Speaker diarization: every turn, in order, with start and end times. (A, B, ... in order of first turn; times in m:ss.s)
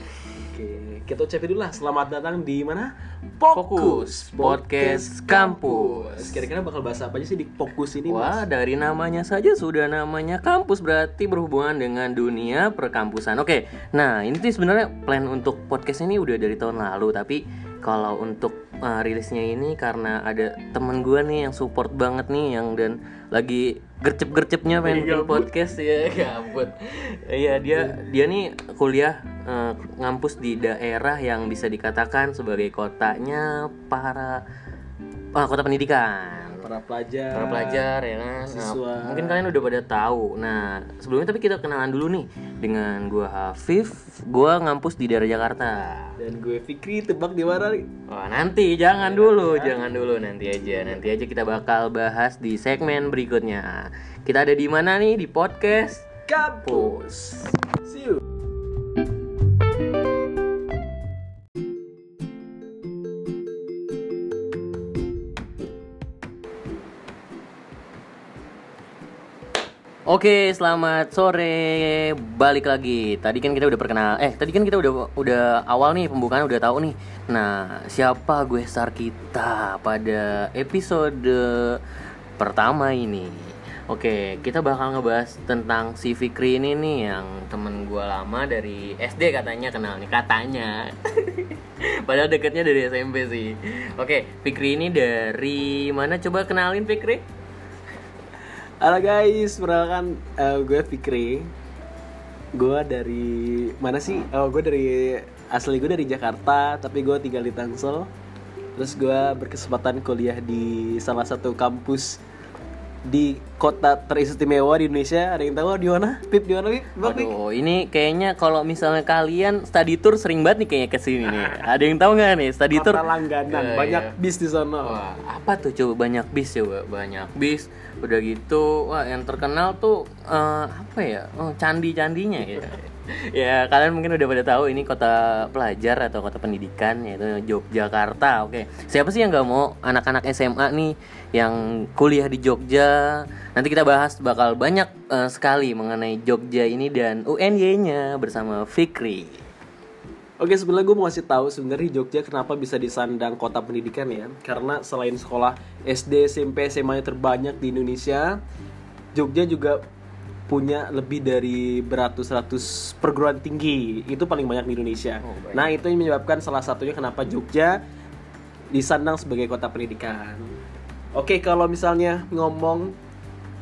0:00.4-0:08.4 A
0:03.5-0:06.4 B
0:08.1-0:34.4 B
0:24.8-0:25.5 A
0:35.3-0:36.7 B
0:36.6-0:37.9 A
0:37.3-0:46.2 B
0:38.4-0:39.4 A
0:46.2-0:47.9 A
0:48.1-0:56.1 B
0:49.0-0:49.8 A
0:56.3-0:58.2 A
0:56.6-0:57.4 B
1:10.1-1:21.8 B
1:22.4-1:37.2 B
1:38.8-1:41.5 A
1:42.5-1:48.1 A
1:48.8-1:52.2 A
1:53.1-1:57.3 A
1:57.0-2:04.1 B
2:01.2-2:01.7 A
2:02.7-2:05.0 A
2:04.8-2:29.4 B
2:30.4-2:38.4 A
2:39.1-2:39.8 A
2:40.5-2:47.8 A
2:45.2-2:45.8 B
2:48.7-2:50.5 A
2:51.2-2:53.0 A